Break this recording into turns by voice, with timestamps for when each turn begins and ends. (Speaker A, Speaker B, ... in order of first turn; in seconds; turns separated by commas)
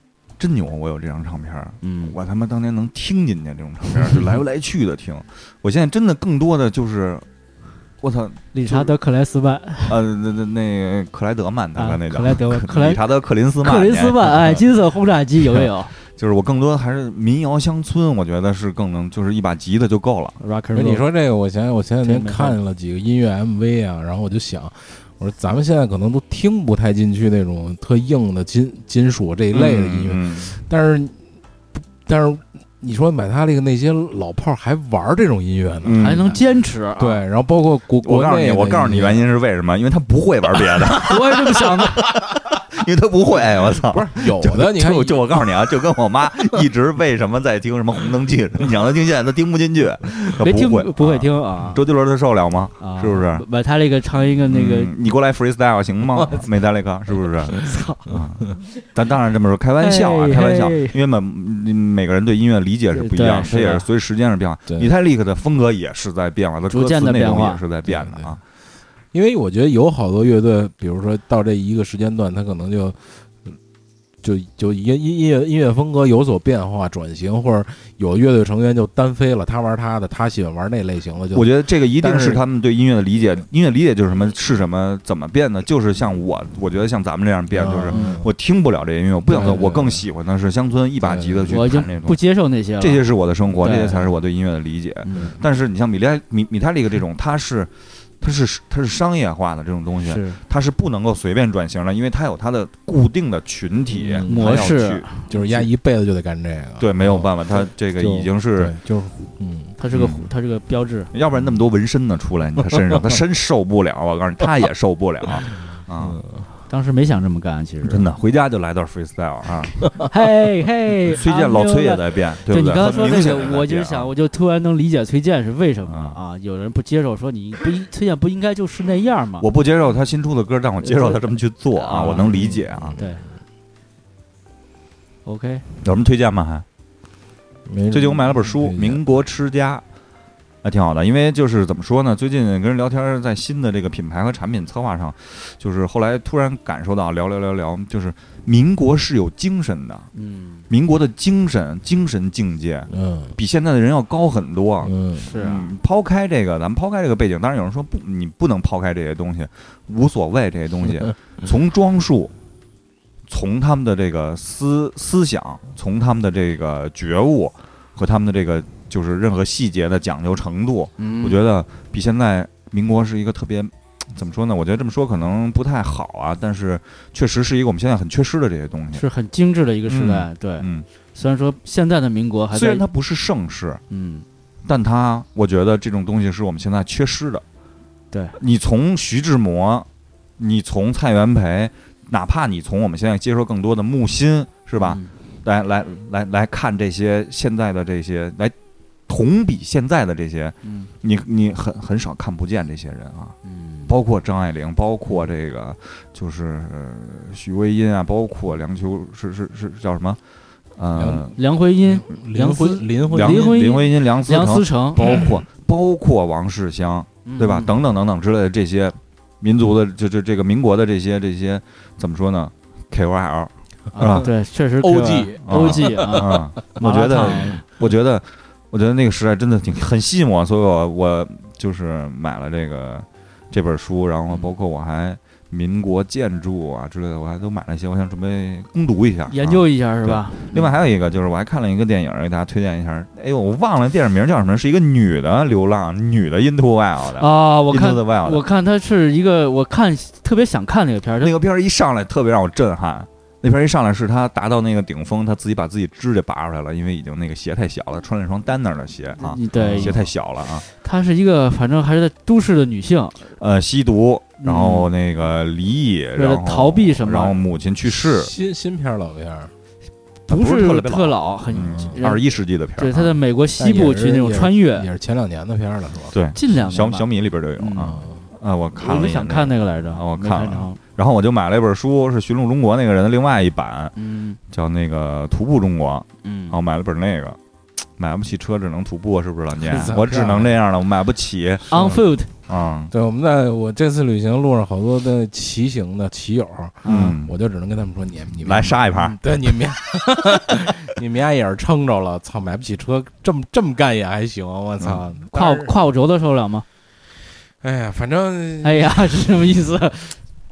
Speaker A: 0.4-7.2, Speaker B: 1.8-2.2, Speaker A: 8.0-8.9, Speaker B: 8.5-10.0, Speaker A: 9.9-14.6, Speaker B: 11.8-13.0, Speaker B: 13.6-15.9, Speaker A: 15.5-20.4, Speaker B: 20.4-21.1, Speaker C: 20.7-31.2, Speaker B: 22.0-22.6, Speaker A: 29.5-30.6, Speaker C: 31.8-36.2, Speaker A: 35.8-36.3, Speaker B: 36.0-37.2, Speaker C: 37.0-39.2, Speaker A: 38.0-53.5, Speaker B: 41.0-42.1, Speaker C: 43.8-45.5, Speaker B: 50.4-51.8, Speaker B: 52.8-54.9, Speaker A: 54.4-68.4, Speaker B: 57.6-58.1, Speaker B: 59.8-61.0, Speaker B: 62.9-63.9, Speaker B: 66.7-67.6, Speaker C: 67.9-68.3, Speaker C: 69.1-73.5, Speaker C: 74.2-82.4, Speaker A: 81.3-92.2, Speaker C: 87.5-88.3, Speaker B: 87.9-88.2, Speaker B: 89.3-89.6, Speaker C: 89.3-90.1, Speaker C: 91.0-91.6, Speaker B: 91.5-93.1, Speaker A: 92.8-105.6, Speaker B: 93.6-94.1, Speaker B: 95.0-95.4, Speaker C: 95.1-95.4, Speaker B: 100.0-100.4, Speaker C: 104.0-104.7, Speaker B: 104.2-105.3, Speaker C: 105.3-109.8, Speaker A: 106.8-108.8, Speaker B: 109.8-111.1, Speaker A: 109.9-110.3, Speaker A: 111.1-116.2, Speaker C: 116.0-116.5, Speaker B: 116.7-118.1, Speaker A: 117.8-119.9, Speaker B: 120.0-129.5, Speaker A: 121.1-124.1, Speaker A: 125.9-126.2, Speaker A: 129.4-133.0, Speaker B: 130.8-131.2, Speaker B: 131.7-133.2, Speaker C: 132.7-133.2, Speaker B: 135.2-135.6, Speaker A: 135.8-136.6, Speaker C: 137.7-139.1, Speaker A: 137.9-139.8, Speaker A: 140.6-150.1, Speaker B: 150.1-150.6, Speaker A: 150.7-162.3, Speaker C: 152.9-153.4, Speaker C: 154.8-155.3, Speaker B: 155.2-155.7, Speaker A: 163.3-179.1, Speaker B: 171.0-171.4, Speaker B: 178.9-182.8, Speaker A: 179.9-180.9, Speaker A: 182.5-183.8, Speaker B: 183.9-184.2, Speaker A: 184.7-187.4, Speaker B: 188.1-188.4, Speaker A: 188.4-189.9, Speaker A: 190.4-198.6, Speaker B: 194.8-195.1, Speaker A: 199.1-203.4, Speaker B: 200.6-200.9, Speaker B: 203.4-203.9, Speaker A: 203.9-210.2, Speaker A: 210.8-211.3, Speaker C: 210.9-211.3, Speaker B: 211.3-215.2, Speaker C: 211.8-213.7, Speaker A: 213.1-224.2, Speaker B: 217.2-217.7, Speaker B: 223.9-227.6, Speaker C: 224.8-226.3, Speaker A: 225.5-248.4, Speaker B: 239.3-240.7, Speaker B: 247.2-251.3, Speaker A: 251.2-260.7, Speaker B: 259.2-260.0, Speaker C: 259.7-260.0, Speaker B: 260.7-263.2, Speaker A: 263.4-268.3, Speaker B: 264.4-264.9, Speaker B: 266.2-267.4, Speaker C: 268.1-269.5, Speaker B: 270.3-272.2, Speaker A: 270.3-273.1, Speaker C: 271.6-272.0, Speaker B: 272.8-274.9, Speaker C: 273.6-276.2, Speaker A: 276.1-283.9, Speaker B: 276.4-277.1, Speaker B: 277.6-278.0, Speaker C: 277.9-278.2, Speaker B: 278.8-280.8, Speaker B: 284.0-284.4, Speaker A: 284.5-287.4, Speaker B: 286.2-286.6, Speaker A: 288.0-291.8, Speaker C: 289.6-290.6, Speaker B: 291.7-292.3, Speaker C: 291.7-292.0, Speaker A: 292.5-292.9, Speaker C: 292.9-305.7, Speaker B: 296.8-297.1, Speaker A: 296.9-297.3, Speaker A: 298.4-299.2, Speaker A: 304.8-305.1, Speaker B: 305.3-306.6, Speaker C: 307.6-309.4, Speaker B: 308.6-310.2